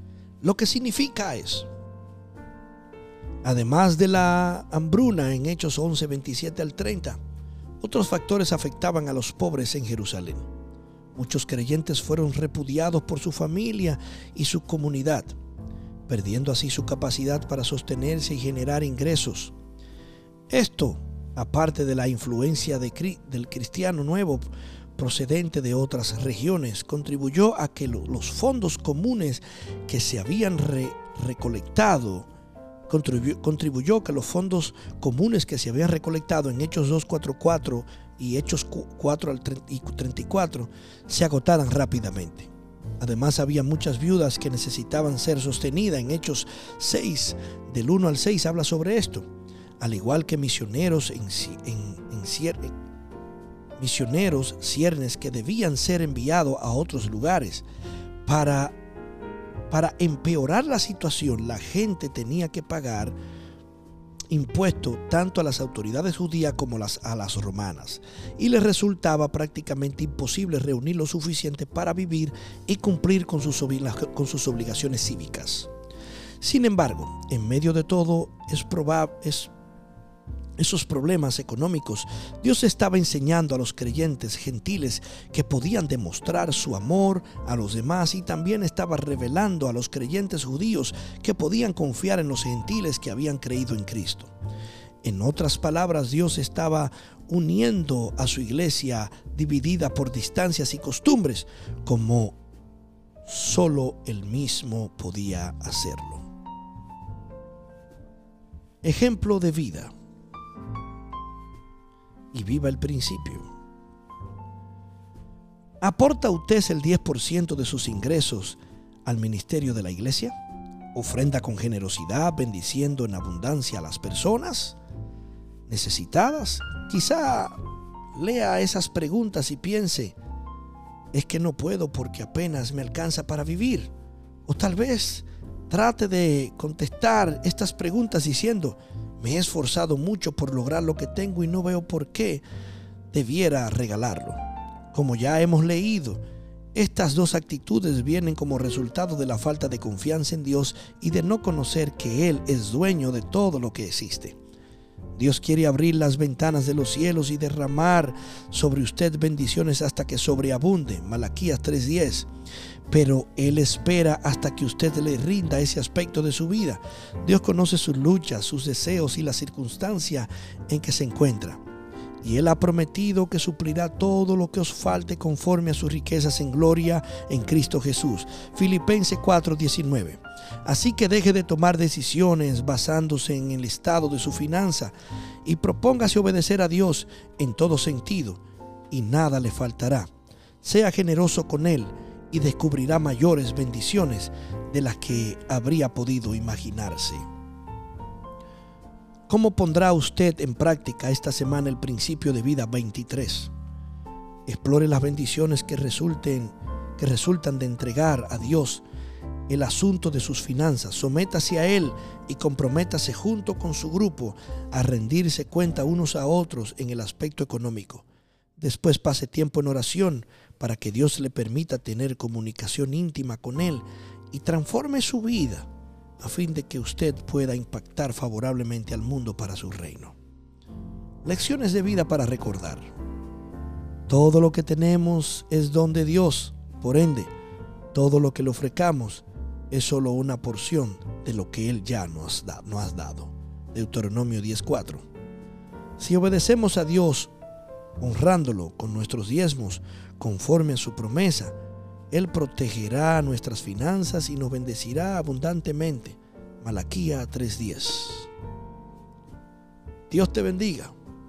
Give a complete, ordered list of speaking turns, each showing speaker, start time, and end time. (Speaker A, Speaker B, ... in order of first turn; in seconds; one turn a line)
Speaker A: 0.4-1.7
Speaker A: 3.4-7.2
Speaker A: 7.8-10.5
Speaker A: 11.1-15.3
Speaker A: 16.1-19.5
Speaker A: 20.5-32.3
Speaker A: 32.9-49.3
Speaker A: 49.8-52.7
Speaker A: 53.8-57.6
Speaker A: 58.2-58.7
Speaker A: 59.7-63.1
Speaker A: 64.3-75.7
Speaker A: 76.4-79.5
Speaker A: 80.6-94.3
Speaker A: 95.0-102.4
Speaker A: 103.2-106.2
Speaker A: 108.8-109.9
Speaker A: 112.3-113.5
Speaker A: 115.8-120.3
Speaker A: 120.9-124.8
Speaker A: 125.7-127.6
Speaker A: 128.1-130.1
Speaker A: 131.1-133.9
Speaker A: 134.4-142.4
Speaker A: 143.1-144.4
Speaker A: 144.9-146.2
Speaker A: 146.7-154.4
Speaker A: 155.2-162.3
Speaker A: 162.9-171.6
Speaker A: 172.2-184.9
Speaker A: 185.4-190.1
Speaker A: 190.6-197.2
Speaker A: 199.3-203.5
Speaker A: 204.4-208.8
Speaker A: 209.5-218.0
Speaker A: 218.6-225.7
Speaker A: 226.2-230.1
Speaker A: 231.2-232.9
Speaker A: 234.1-237.3
Speaker A: 237.9-245.0
Speaker A: 246.0-247.3
Speaker A: 248.0-251.5
Speaker A: 252.1-258.3
Speaker A: 260.1-260.9